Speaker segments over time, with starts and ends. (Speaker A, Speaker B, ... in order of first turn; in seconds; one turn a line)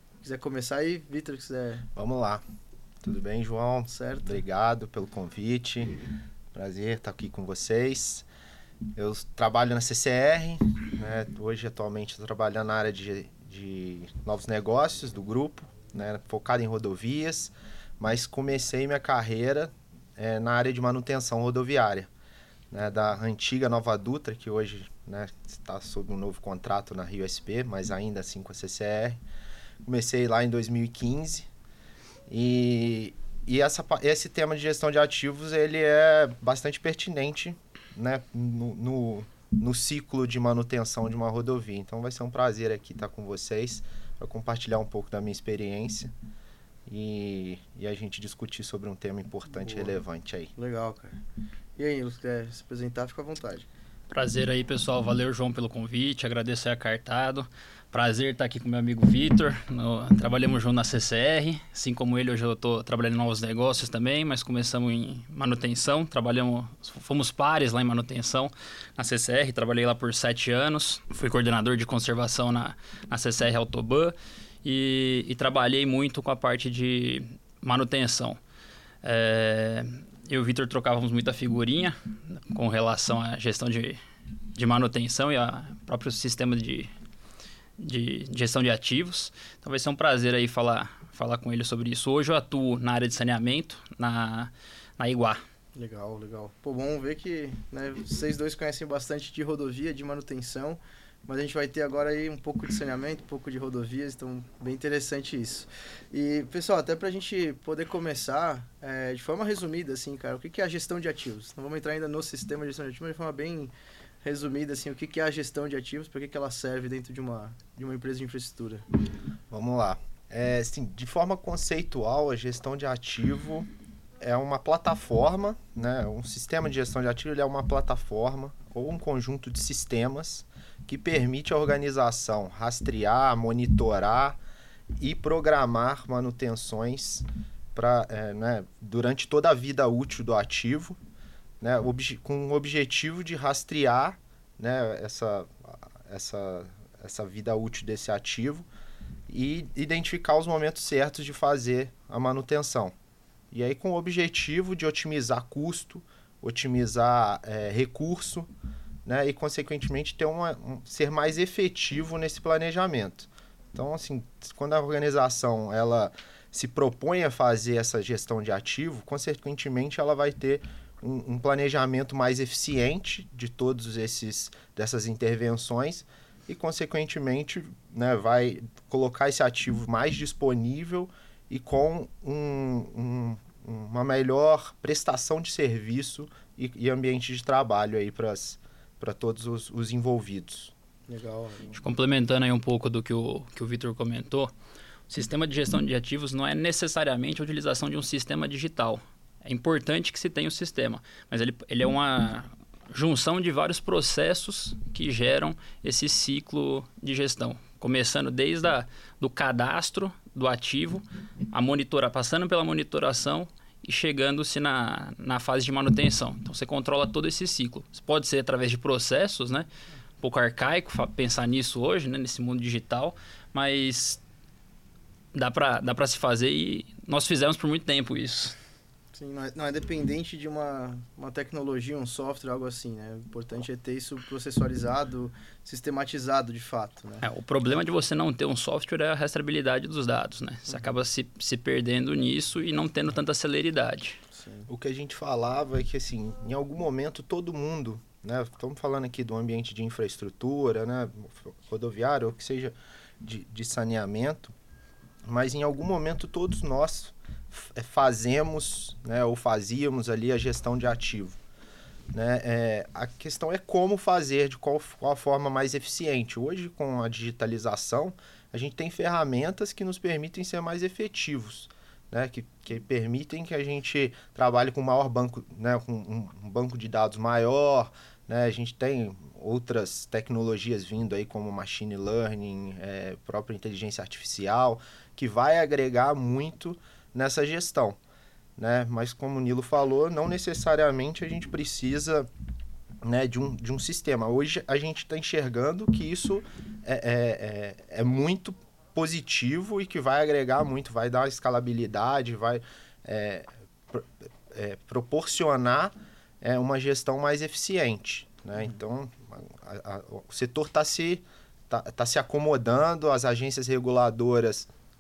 Speaker A: 0.2-1.9
Speaker B: 2.0-2.4
Speaker B: 3.0-6.0
Speaker A: 3.9-4.4
Speaker B: 6.5-8.3
Speaker B: 9.0-22.1
Speaker B: 22.7-29.2
Speaker B: 29.8-31.5
Speaker B: 32.3-46.1
Speaker B: 46.9-50.5
Speaker A: 49.6-50.0
Speaker A: 50.6-51.2
Speaker A: 51.8-53.7
Speaker C: 54.1-78.4
Speaker C: 79.0-84.0
Speaker C: 84.5-86.9
Speaker C: 87.8-95.4
Speaker A: 95.8-113.7
Speaker A: 114.2-118.8
Speaker B: 119.5-123.7
Speaker B: 124.2-134.4
Speaker B: 135.0-141.0
Speaker B: 141.6-148.7
Speaker B: 149.3-152.9
Speaker B: 153.5-158.5
Speaker B: 159.1-190.7
Speaker A: 191.1-191.8
Speaker C: 191.8-194.5
Speaker C: 195.1-219.7
Speaker C: 220.2-224.2
Speaker C: 225.3-228.6
Speaker A: 229.1-237.2
Speaker C: 237.2-244.2
Speaker A: 244.3-244.7
Speaker B: 244.7-254.5
Speaker B: 255.3-261.4
Speaker B: 262.1-288.0
Speaker B: 288.6-292.3
Speaker B: 293.0-314.7